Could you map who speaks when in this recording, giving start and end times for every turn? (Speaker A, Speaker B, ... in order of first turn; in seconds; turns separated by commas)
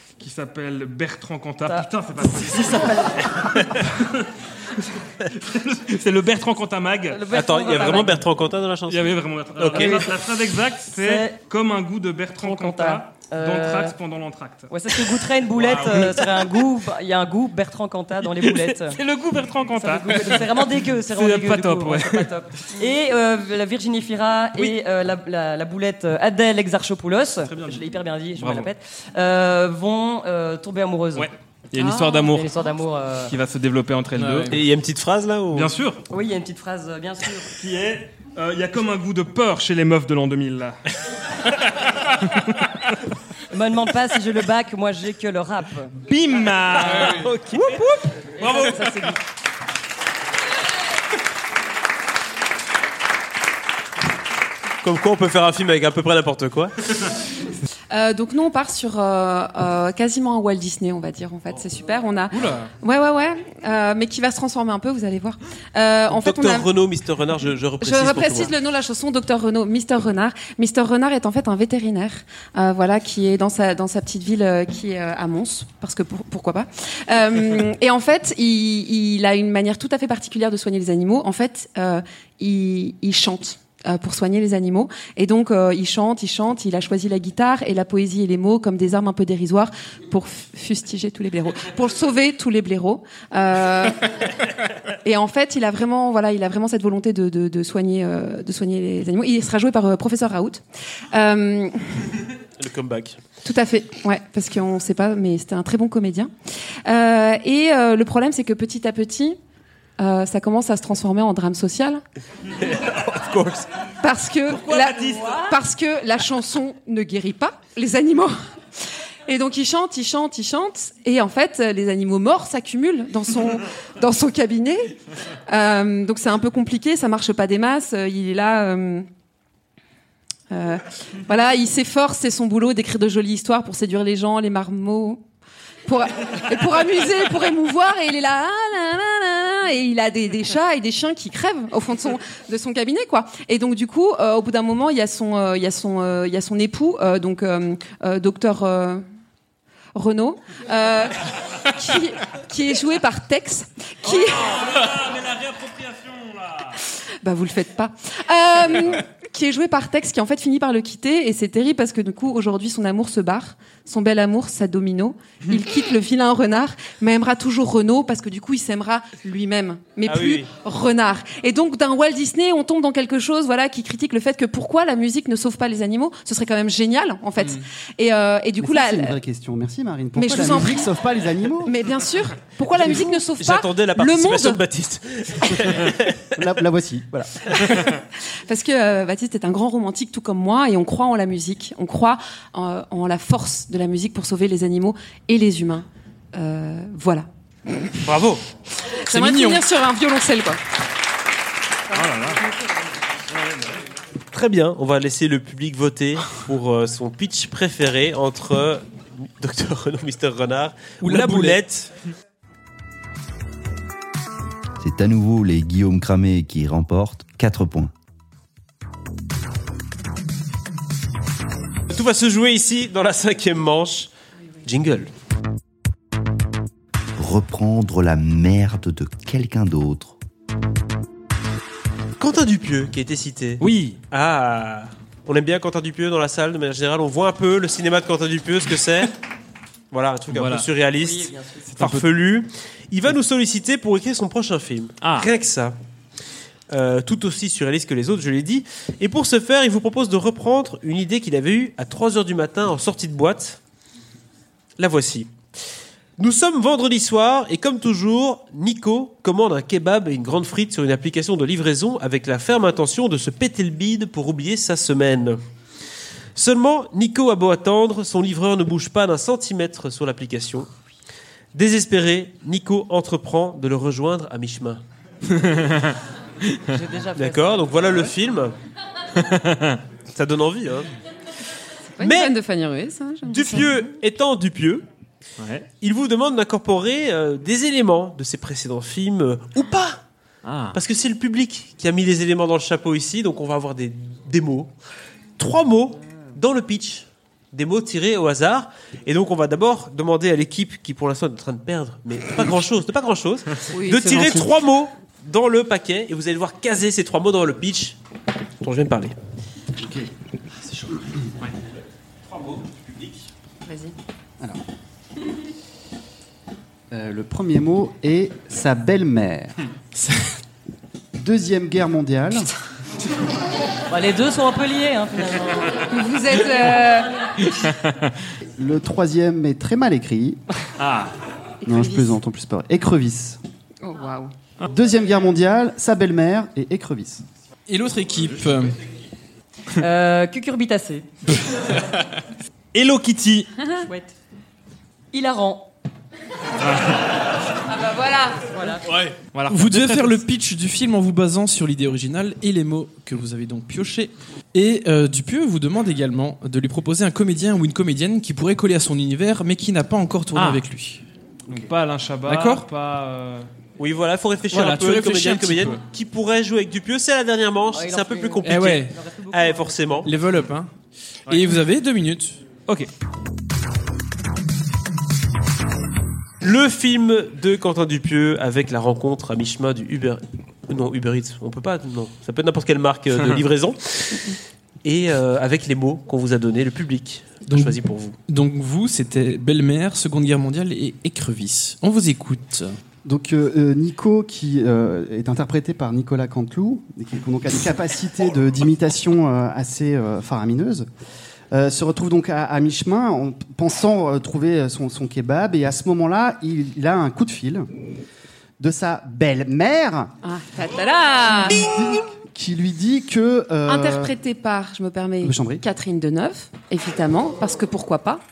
Speaker A: 0.2-7.2, Speaker B: 1.7-3.4, Speaker B: 7.1-8.2, Speaker C: 7.3-10.1, Speaker A: 7.8-8.1, Speaker A: 8.9-16.4, Speaker B: 9.7-10.1, Speaker B: 10.9-11.4, Speaker B: 12.4-14.0, Speaker B: 14.7-19.0, Speaker A: 18.2-22.3, Speaker B: 19.7-31.3, Speaker A: 27.5-27.8, Speaker A: 28.4-28.7, Speaker A: 31.2-32.5, Speaker D: 31.8-32.3, Speaker B: 32.3-33.4, Speaker A: 33.3-34.5, Speaker E: 34.1-34.6, Speaker C: 34.5-35.7, Speaker A: 35.5-36.0, Speaker B: 36.1-37.5, Speaker A: 37.5-40.8, Speaker A: 41.4-43.0, Speaker B: 43.5-46.0, Speaker A: 46.1-47.8, Speaker E: 46.8-47.3, Speaker C: 46.9-48.0, Speaker A: 48.4-49.2, Speaker B: 48.4-49.2, Speaker C: 54.8-56.7, Speaker D: 57.9-66.7, Speaker E: 62.3-62.7, Speaker C: 66.1-68.5, Speaker D: 67.8-94.1, Speaker D: 95.0-102.1, Speaker C: 102.6-103.2, Speaker D: 103.4-106.3, Speaker D: 106.8-109.4, Speaker D: 110.0-112.0, Speaker C: 112.6-113.7, Speaker D: 114.0-118.4, Speaker A: 114.5-115.5, Speaker D: 119.3-129.1, Speaker D: 130.5-135.2, Speaker D: 135.9-149.0, Speaker D: 149.9-154.6, Speaker A: 154.1-156.8, Speaker D: 157.2-179.2, Speaker C: 170.1-170.5, Speaker F: 178.6-181.8, Speaker D: 180.2-180.9, Speaker D: 181.6-184.6, Speaker C: 182.8-186.3, Speaker F: 186.4-187.5, Speaker D: 188.5-198.0, Speaker C: 198.0-198.4, Speaker D: 198.9-200.6, Speaker E: 199.1-199.6, Speaker A: 201.9-202.4, Speaker A: 203.3-203.7, Speaker C: 204.3-211.9, Speaker E: 211.0-211.6, Speaker G: 214.8-217.9, Speaker C: 221.9-224.1, Speaker C: 224.6-225.1, Speaker G: 227.2-230.2, Speaker C: 232.2-239.2, Speaker A: 233.6-234.0, Speaker C: 239.9-245.8, Speaker A: 240.3-240.7, Speaker B: 241.0-241.7, Speaker A: 241.8-242.1, Speaker A: 245.0-245.3, Speaker C: 246.7-253.6, Speaker C: 254.8-255.3, Speaker C: 256.2-265.4, Speaker C: 266.4-270.7, Speaker C: 271.5-274.8, Speaker A: 275.3-276.7, Speaker B: 276.7-277.9, Speaker C: 277.2-278.6, Speaker A: 279.2-279.8, Speaker C: 280.1-280.9, Speaker D: 282.0-283.7, Speaker C: 282.0-282.3, Speaker C: 283.3-284.9, Speaker A: 285.4-285.7, Speaker C: 285.8-290.0, Speaker A: 290.4-290.8, Speaker C: 290.7-294.7, Speaker C: 295.4-308.0, Speaker D: 303.7-304.5, Speaker C: 308.6-309.2, Speaker F: 309.8-310.1, Speaker D: 313.7-313.9, Speaker F: 316.9-319.6, Speaker E: 319.9-320.3, Speaker F: 321.2-322.5, Speaker B: 323.9-325.9, Speaker D: 325.9-327.1, Speaker A: 327.6-328.1, Speaker F: 328.4-330.4, Speaker A: 330.8-331.1, Speaker D: 331.6-332.2, Speaker F: 331.6-333.4, Speaker D: 333.8-334.3, Speaker F: 334.7-337.2, Speaker E: 337.7-338.8, Speaker B: 339.8-341.1, Speaker A: 342.7-343.6, Speaker B: 343.9-344.1, Speaker B: 345.1-345.7, Speaker A: 346.6-347.0, Speaker D: 347.7-348.4, Speaker B: 348.5-348.9, Speaker E: 348.9-361.0, Speaker A: 349.3-350.2, Speaker A: 360.3-360.6, Speaker A: 361.5-363.5, Speaker E: 362.3-362.7, Speaker C: 363.8-370.1, Speaker E: 364.5-365.8, Speaker B: 367.7-370.1, Speaker E: 368.4-368.9, Speaker E: 370.1-370.7, Speaker A: 371.3-371.5, Speaker E: 371.3-372.4, Speaker C: 376.4-388.2, Speaker E: 387.5-387.8, Speaker E: 388.3-392.8, Speaker F: 393.1-400.9, Speaker F: 401.5-407.7, Speaker F: 408.6-410.1, Speaker D: 410.2-411.6, Speaker F: 411.2-414.1, Speaker C: 411.6-412.0, Speaker D: 413.7-418.2, Speaker F: 415.2-415.6